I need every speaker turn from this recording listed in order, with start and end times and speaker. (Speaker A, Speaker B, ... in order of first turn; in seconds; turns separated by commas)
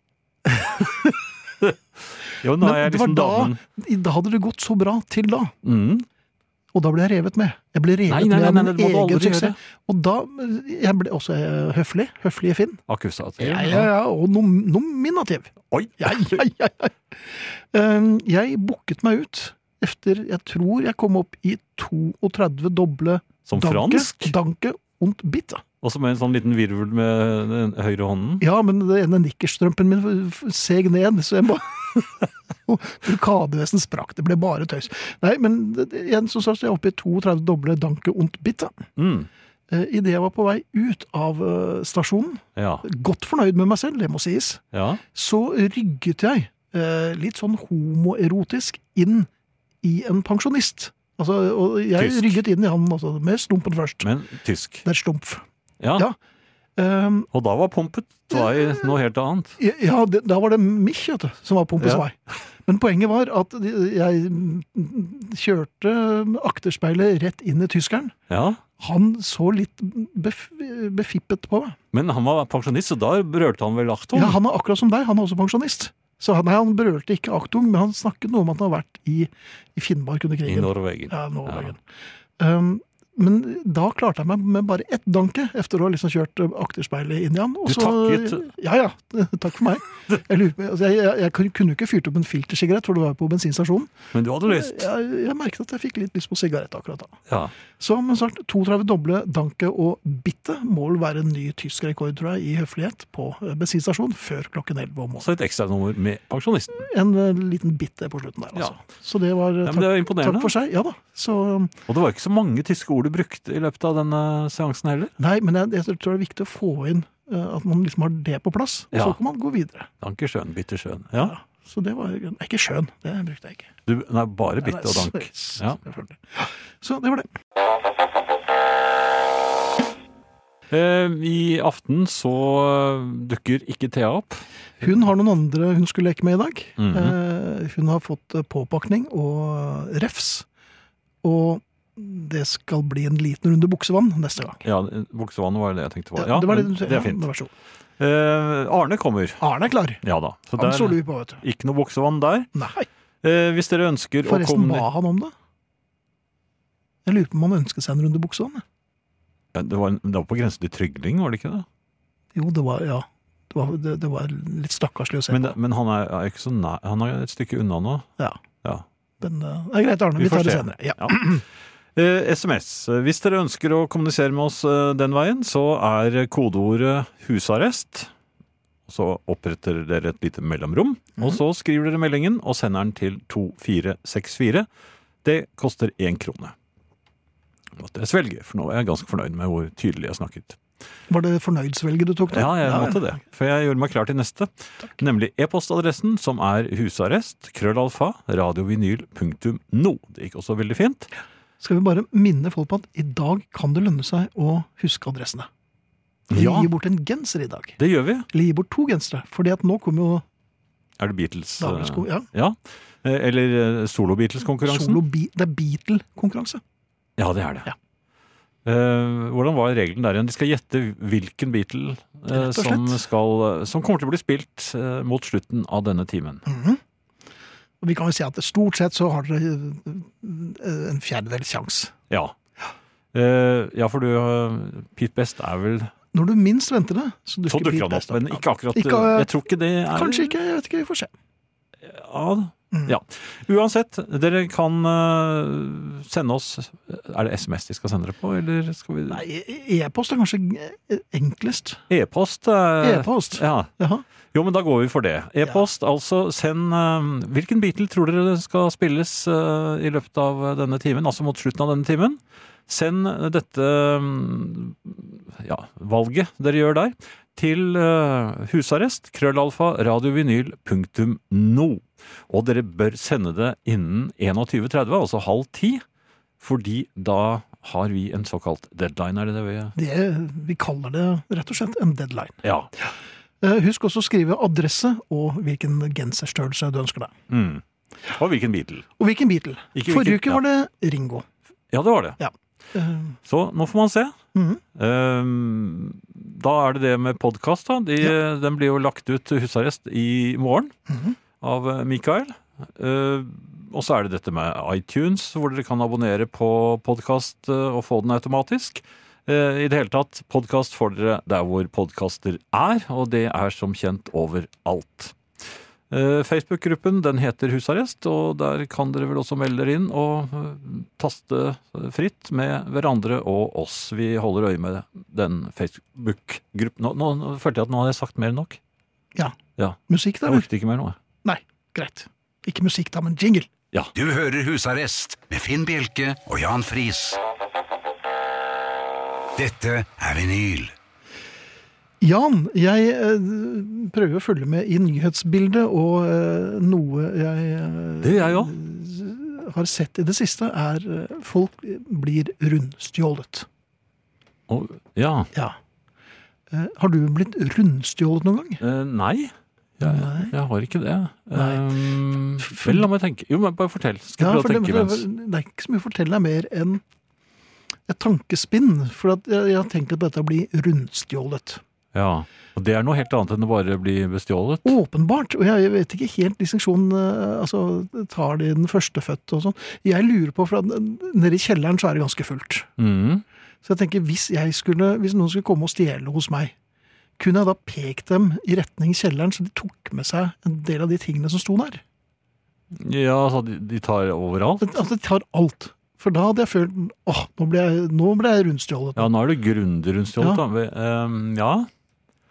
Speaker A: 0.5-1.1, Speaker B: 2.4-3.6, Speaker A: 2.6-5.5, Speaker B: 5.6-6.1, Speaker A: 6.7-12.8, Speaker B: 8.1-9.6, Speaker B: 12.9-13.9, Speaker A: 13.4-25.6, Speaker B: 15.7-16.4, Speaker B: 23.4-24.3, Speaker B: 25.8-28.4, Speaker A: 28.4-38.8, Speaker B: 39.0-39.3, Speaker A: 39.7-44.6, Speaker B: 42.5-42.8, Speaker B: 44.7-45.0, Speaker A: 45.1-49.3, Speaker A: 49.8-54.1, Speaker B: 52.0-52.4, Speaker B: 54.0-54.8, Speaker A: 54.8-55.4, Speaker B: 55.8-56.0, Speaker A: 56.8-57.3, Speaker B: 57.3-59.6, Speaker A: 58.3-58.9, Speaker A: 59.6-68.1, Speaker B: 61.8-62.0, Speaker B: 68.3-68.6, Speaker A: 68.8-71.8, Speaker B: 71.9-74.4, Speaker A: 74.1-81.8, Speaker B: 80.5-81.7, Speaker A: 82.4-93.9, Speaker B: 87.7-88.4, Speaker B: 94.1-94.9, Speaker A: 94.4-97.2, Speaker B: 97.3-97.5, Speaker A: 97.8-105.3, Speaker B: 105.2-106.9, Speaker A: 106.7-111.8, Speaker B: 109.6-110.5, Speaker B: 111.9-115.1, Speaker A: 115.2-119.9, Speaker B: 120.0-121.3, Speaker A: 121.2-123.7, Speaker B: 123.9-125.8, Speaker A: 124.6-127.3, Speaker B: 130.7-134.9, Speaker A: 134.8-140.4, Speaker B: 136.8-137.2, Speaker A: 141.2-144.6, Speaker B: 144.6-147.2, Speaker A: 146.2-147.5, Speaker B: 148.0-149.4, Speaker A: 149.4-150.0, Speaker B: 150.0-152.5, Speaker A: 150.6-151.4, Speaker A: 152.5-152.9, Speaker B: 153.2-154.9, Speaker A: 154.2-155.3, Speaker A: 157.0-158.6, Speaker B: 159.5-161.7, Speaker A: 162.3-165.6, Speaker B: 165.3-168.1, Speaker A: 169.2-171.4, Speaker B: 170.2-171.2, Speaker B: 171.9-178.1, Speaker B: 178.9-184.7, Speaker B: 185.2-186.5, Speaker B: 187.7-190.6, Speaker A: 191.1-193.1, Speaker B: 192.3-201.1, Speaker A: 201.6-205.5, Speaker B: 206.3-206.7, Speaker A: 206.3-207.8, Speaker B: 207.8-208.3, Speaker A: 208.3-210.2, Speaker B: 211.0-215.0, Speaker A: 211.6-212.2, Speaker A: 214.6-216.6, Speaker B: 217.2-217.7, Speaker B: 218.6-226.4, Speaker A: 222.3-223.0, Speaker A: 226.4-226.8, Speaker A: 227.8-231.9, Speaker B: 232.1-232.3, Speaker B: 233.1-235.9, Speaker A: 236.1-239.3, Speaker B: 237.5-240.3, Speaker A: 239.8-241.1, Speaker B: 241.8-249.2, Speaker A: 249.1-251.8, Speaker B: 251.9-253.7, Speaker A: 252.8-254.0, Speaker B: 254.3-275.8, Speaker B: 276.4-279.7, Speaker A: 279.8-287.1, Speaker B: 282.4-282.7, Speaker B: 287.3-288.9, Speaker A: 289.0-291.2, Speaker B: 289.7-290.4, Speaker B: 291.7-292.2, Speaker A: 292.2-293.1, Speaker B: 293.2-294.1, Speaker A: 294.3-294.6, Speaker B: 294.7-300.7, Speaker A: 300.9-301.1, Speaker B: 301.4-315.2, Speaker B: 315.9-328.6, Speaker B: 329.6-331.0, Speaker A: 329.9-330.4, Speaker A: 331.2-333.5, Speaker C: 333.9-337.2, Speaker C: 339.4-340.7, Speaker A: 342.0-353.5, Speaker B: 348.0-348.5, Speaker B: 354.5-355.3, Speaker A: 356.5-358.6, Speaker B: 358.6-365.1, Speaker A: 359.8-360.3, Speaker A: 361.3-361.6, Speaker A: 362.4-362.9, Speaker A: 364.2-366.8, Speaker A: 367.9-371.6, Speaker B: 371.9-374.7, Speaker A: 374.6-382.7, Speaker B: 382.8-383.2, Speaker A: 383.6-386.5, Speaker A: 387.2-391.8, Speaker B: 392.7-394.8, Speaker A: 394.6-399.1, Speaker B: 398.9-401.7